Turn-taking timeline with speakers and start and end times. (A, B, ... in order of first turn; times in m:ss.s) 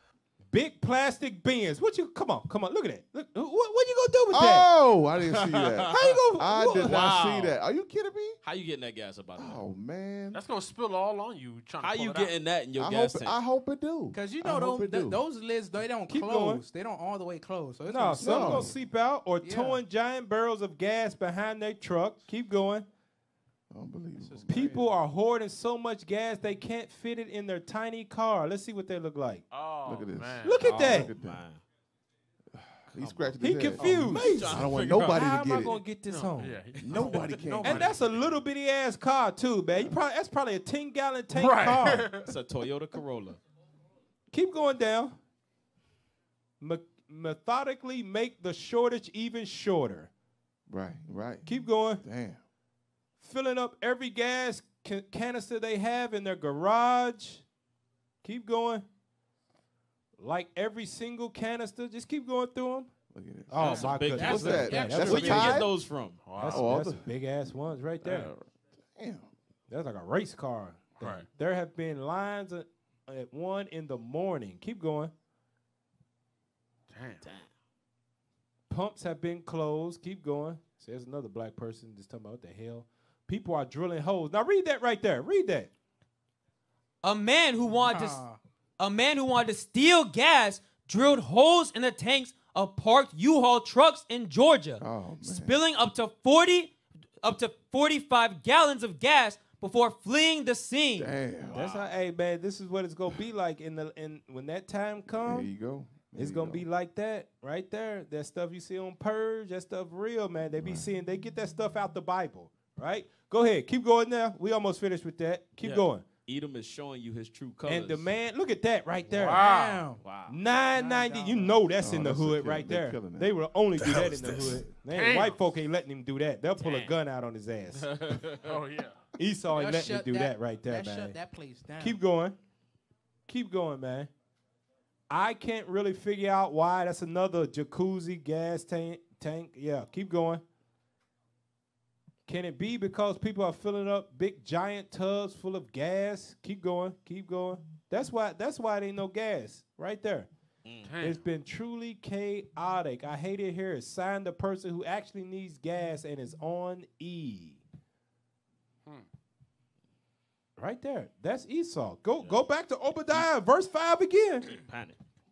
0:00.5-0:04.7 A
0:04.3-0:08.4 B
0:05.3-0:06.2 C
0:05.9-0:07.1 A
0:06.8-0:07.5 C
0:08.4-0:09.6 C
0:09.4-0:10.4 B
0:10.3-0:12.4 D
0:11.8-0:13.4 C
0:12.8-0:15.2 B
0:14.1-0:18.7 E
0:16.1-0:16.6 A
0:17.9-0:22.8 A
0:18.2-0:18.7 B
0:19.4-0:19.8 E
0:23.7-0:24.5 B
0:24.2-0:25.0 C
0:24.5-0:29.4 A
0:29.5-0:30.8 D
0:29.8-0:31.4 B
0:30.4-0:31.1 A
0:30.6-0:31.6 C
0:32.7-0:35.8 B
0:33.0-0:35.3 C
0:33.4-0:36.6 A
0:36.1-0:38.3 D
0:36.8-0:37.7 C
0:36.8-0:38.1 B
0:37.6-0:42.1 A
0:41.3-0:42.3 D
0:42.2-0:43.4 C
0:44.3-0:45.2 A
0:46.6-0:50.1 A
0:50.7-0:51.5 B
0:51.4-0:52.0 A
0:52.0-0:52.4 B
0:53.2-0:57.4 A
0:58.2-0:58.8 A
1:00.2-1:02.9 A
1:03.1-1:05.7 B
1:03.5-1:05.6 A
1:03.6-1:06.2 C
1:04.2-1:05.6 E
1:06.2-1:06.7 D
1:06.3-1:07.1 B
1:06.4-1:08.3 A
1:08.0-1:09.3 B
1:09.7-1:15.1 A
1:11.0-1:11.3 D
1:16.9-1:17.2 D
1:17.2-1:17.5 C
1:18.7-1:25.7 A
1:27.0-1:28.2 F
1:27.8-1:28.4 E
1:28.8-1:41.2 F
1:34.8-1:35.6 B
1:41.0-1:41.6 B
1:41.5-1:45.5 A
1:45.1-1:46.6 B
1:46.1-1:56.0 A
1:50.6-1:50.9 B
1:55.6-1:58.1 C
1:57.6-1:59.4 A
1:59.2-1:59.9 D
1:59.4-2:00.0 E
2:00.0-2:00.4 C
2:00.3-2:08.0 A
2:00.7-2:01.7 E
2:01.8-2:03.3 B
2:04.9-2:05.4 D
2:06.6-2:06.9 C
2:08.0-2:08.4 C
2:08.4-2:09.0 D
2:09.2-2:11.2 A
2:09.5-2:12.0 E
2:11.8-2:12.4 A
2:13.3-2:14.1 A
2:15.1-2:20.4 A
2:22.3-2:30.3 A
2:30.8-2:31.2 D
2:31.0-2:37.6 A
2:40.6-2:44.5 A
2:42.2-2:42.4 C
2:44.5-2:45.0 C